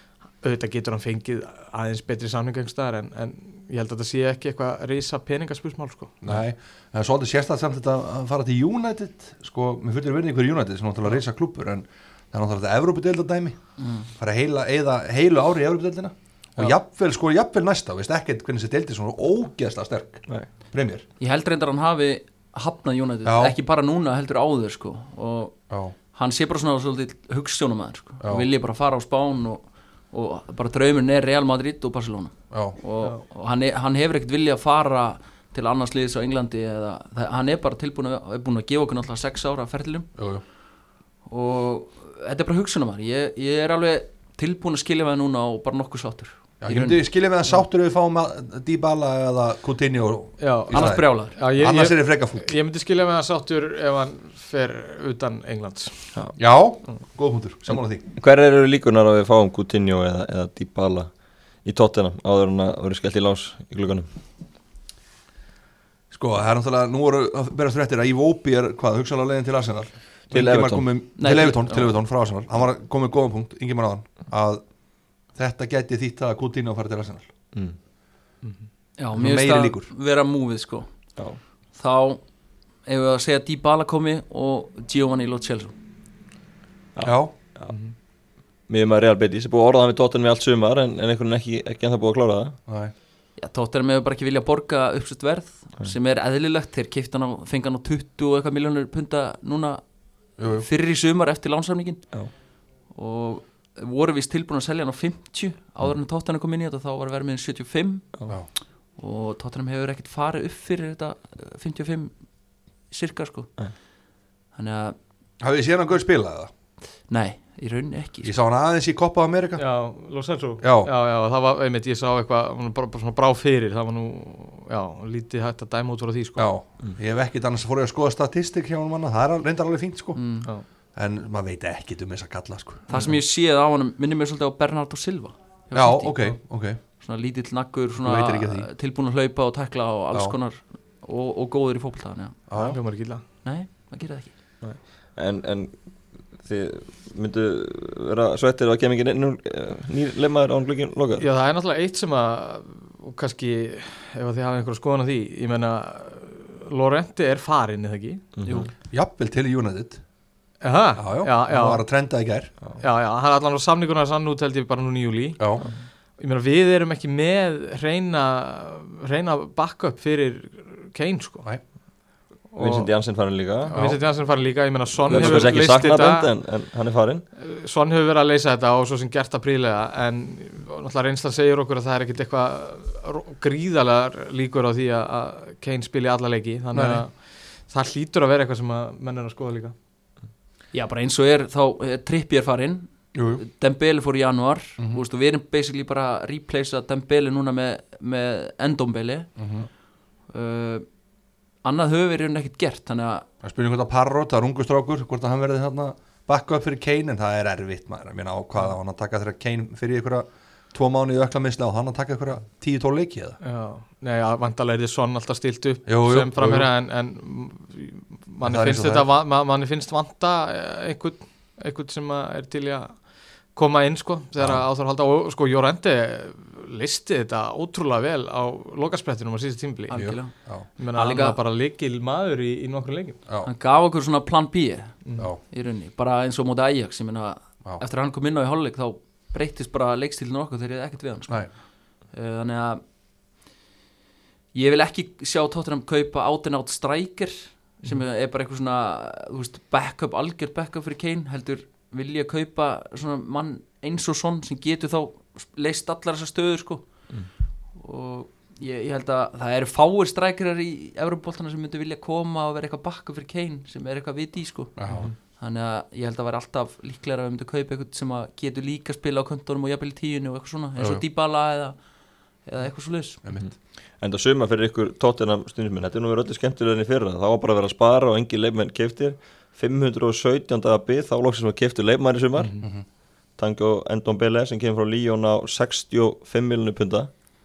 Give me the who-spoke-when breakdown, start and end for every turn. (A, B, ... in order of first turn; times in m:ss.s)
0:00.4-0:06.2 A
0:06.2-0:21.0 B
0:13.8-0:14.0 C
0:21.2-0:25.5 C
0:23.2-0:23.6 B
0:25.7-0:25.9 B
0:26.1-0:40.1 C
0:28.2-0:28.5 B
0:32.5-0:32.8 B
0:40.2-0:40.4 B
0:41.3-0:47.0 C
0:46.6-0:52.6 B
0:50.4-0:55.9 A
0:50.7-0:51.4 C
0:56.4-0:58.1 B
0:58.2-1:01.1 D
1:01.6-1:04.0 D
1:06.1-1:14.6 B
1:10.3-1:10.9 D
1:11.2-1:11.9 C
1:15.3-1:17.3 B
1:19.0-1:20.9 C
1:19.2-1:19.9 B
1:21.7-1:22.2 C
1:22.8-1:25.7 C
1:27.0-1:27.7 D
1:27.0-1:27.3 B
1:28.7-1:32.6 D
1:32.7-1:32.9 B
1:33.4-1:39.8 C
1:40.4-1:40.7 B
1:40.4-1:42.0 C
1:42.9-1:48.1 C
1:49.0-1:52.1 C
1:52.9-1:53.5 C
1:54.5-1:55.0 C
1:55.4-1:56.5 B
1:57.1-1:58.3 C
1:58.2-1:59.6 B
1:59.6-2:06.5 A
2:00.6-2:00.9 B
2:06.4-2:10.2 B
2:10.1-2:10.5 C
2:10.9-2:13.1 B
2:12.9-2:16.3 C
2:15.7-2:16.8 B
2:17.0-2:22.4 C
2:18.0-2:18.7 B
2:22.5-2:22.8 B
2:22.6-2:23.2 A
2:23.4-2:24.3 C
2:24.6-2:25.7 D
2:26.4-2:31.2 D
2:31.2-2:38.2 A
2:38.4-2:38.7 D
2:38.9-2:40.0 B
2:40.6-2:41.8 A
2:41.0-2:42.5 B
2:42.8-2:51.4 A
2:45.4-2:45.6 B
2:52.5-2:52.9 A
2:52.6-2:53.8 D
2:53.6-2:56.3 A
2:53.7-2:54.0 B
2:55.1-2:57.2 D
2:55.1-2:55.4 B
2:57.4-3:09.7 A
3:06.7-3:07.0 B
3:10.7-3:19.3 C
3:13.1-3:13.4 B
3:19.4-3:19.7 B
3:20.3-3:20.8 C
3:21.6-3:23.2 C
3:23.4-3:33.4 B
3:33.4-3:43.0 A
3:35.9-3:36.7 B
3:38.4-3:39.1 B
3:43.5-3:50.0 A
3:44.4-3:44.6 B
3:49.9-3:50.3 C
3:49.9-3:50.7 B
3:50.8-3:53.2 A
3:50.9-3:51.4 C
3:53.4-3:54.9 C
3:55.5-4:01.4 C
4:02.1-4:02.8 C
4:04.5-4:16.8 C
4:17.8-4:24.8 C
4:24.8-4:25.1 B
4:25.4-4:31.8 C
4:30.8-4:31.0 B
4:32.4-4:33.2 C
4:33.2-4:33.5 B
4:34.0-4:42.6 D
4:42.4-4:42.6 A
4:43.4-4:47.1 D